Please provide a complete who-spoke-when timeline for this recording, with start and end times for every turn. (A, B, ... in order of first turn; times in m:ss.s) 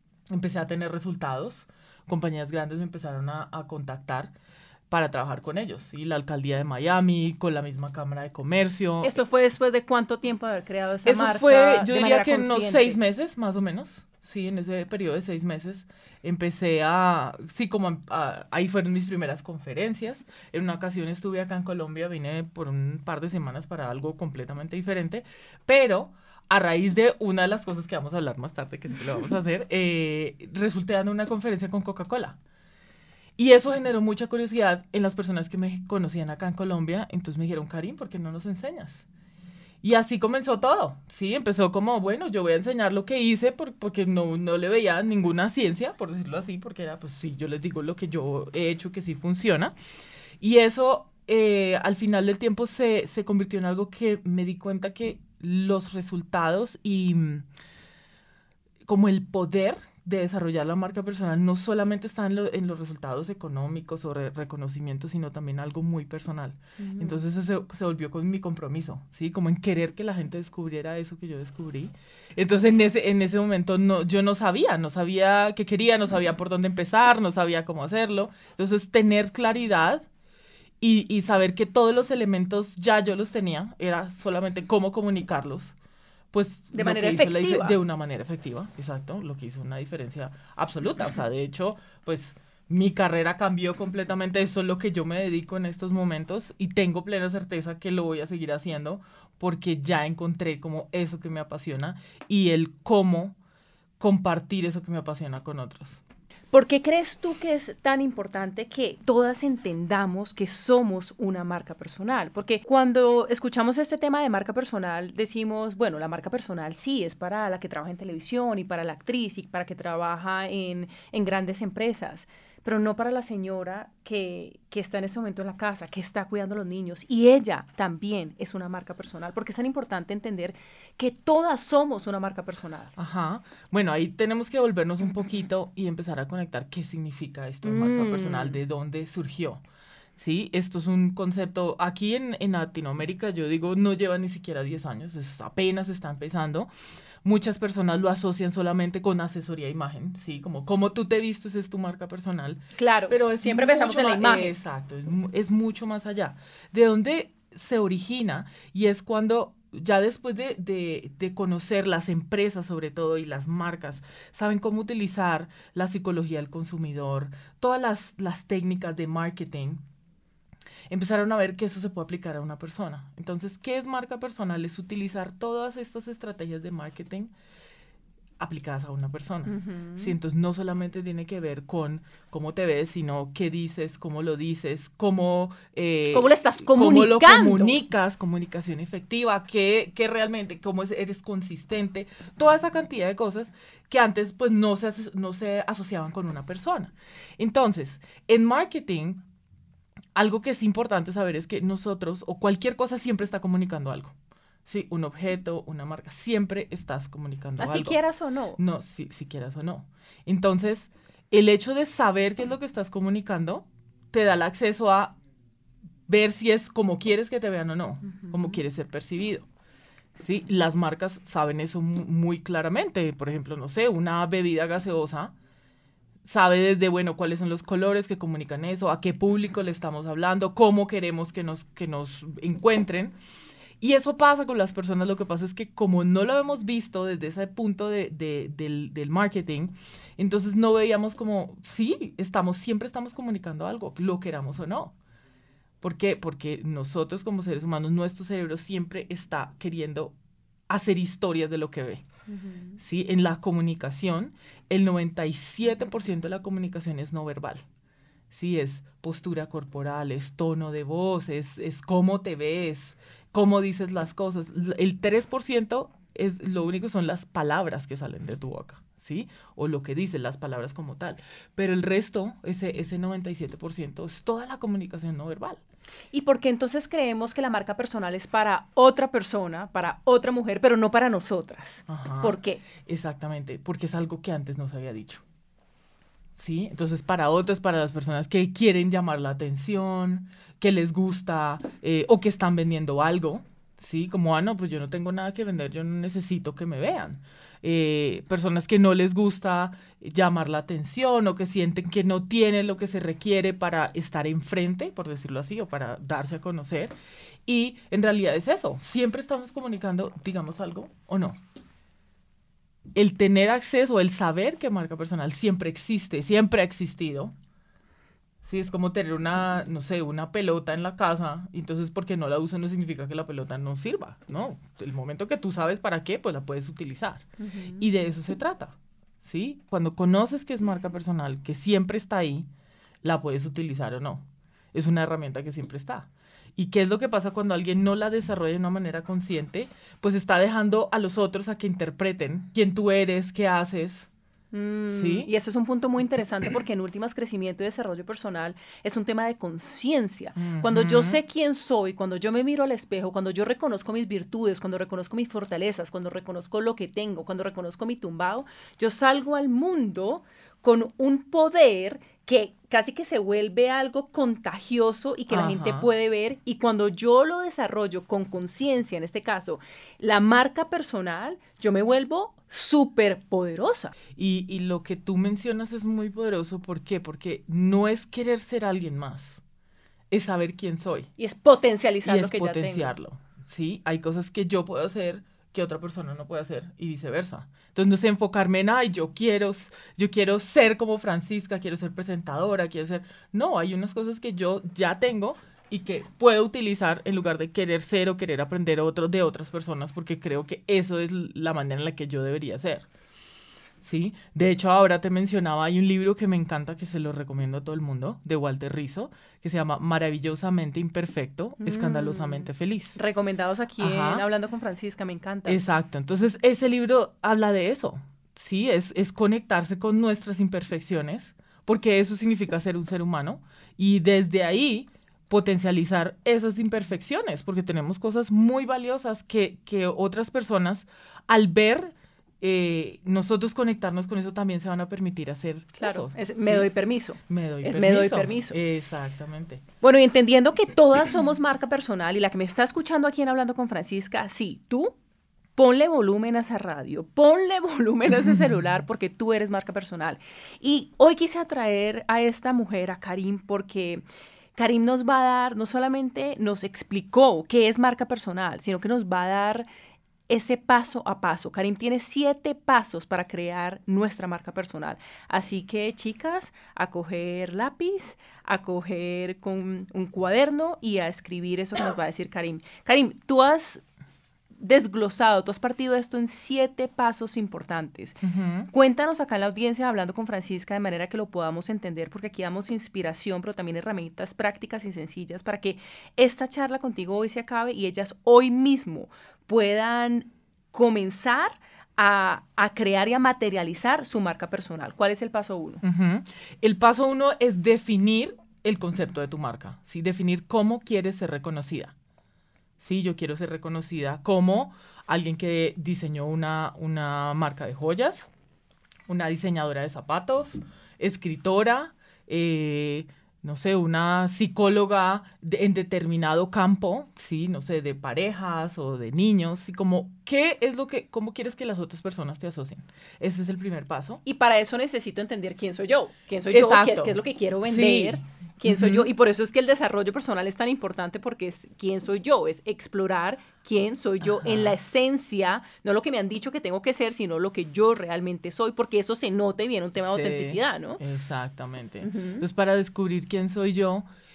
0:00.3-0:04.3 A
0:04.9-0:09.2 A
0:09.0-0:13.0 B
0:11.0-0:32.4 A
0:33.4-0:39.1 A
0:39.8-0:49.7 A
0:50.4-0:57.5 A
0:58.8-1:20.1 A
1:06.8-1:07.2 B
1:20.8-1:25.8 A
1:26.3-1:43.4 A
1:26.7-1:27.8 B
1:44.0-1:46.0 A
1:46.5-2:12.9 B
2:13.0-2:19.6 A
2:17.6-2:18.6 B
2:20.2-2:26.7 A
2:27.2-2:49.8 A
2:32.8-2:34.6 B
2:50.9-2:57.3 A
2:58.4-3:19.2 A
2:59.5-3:00.1 B
3:06.1-3:07.9 B
3:20.2-3:24.2 A
3:24.7-3:28.0 A
3:27.6-3:28.6 B
3:28.6-3:35.2 A
3:36.1-3:39.4 A
3:38.1-3:38.6 B
3:40.2-3:45.3 A
3:46.2-3:53.2 A
3:53.8-4:05.0 A
4:05.8-4:10.1 A
4:10.7-4:12.0 A
4:12.3-4:12.8 B
4:12.8-4:17.6 A
4:18.3-4:35.6 A
4:36.1-4:42.6 B
4:41.9-4:45.2 A
4:46.4-5:06.9 A
5:07.5-5:11.4 A
5:12.9-5:17.3 A
5:18.4-5:27.3 A
5:27.4-5:27.9 B
5:27.8-5:32.5 A
5:33.0-5:44.1 A
5:44.5-6:13.9 B
5:44.9-5:45.3 A
5:50.4-5:51.2 A
6:05.3-6:05.9 A
6:14.2-6:19.4 A
6:20.1-6:21.1 A
6:21.2-6:22.9 B
6:22.0-6:42.9 A
6:43.8-6:53.0 A
6:51.6-6:55.6 B
6:53.8-6:54.2 A
6:55.5-7:16.7 A
7:15.8-7:18.6 B
7:17.3-7:19.6 A
7:19.8-7:25.0 B
7:25.6-7:34.0 B
7:34.6-7:39.7 B
7:40.3-7:53.8 B
7:54.6-8:15.8 B
7:58.2-7:58.7 A
8:15.8-8:22.0 A
8:22.8-8:28.3 A
8:29.1-8:44.2 A
8:44.2-9:01.0 B
8:46.5-8:49.1 A
8:54.2-8:54.8 A
9:00.0-9:04.1 A
9:02.0-9:02.5 B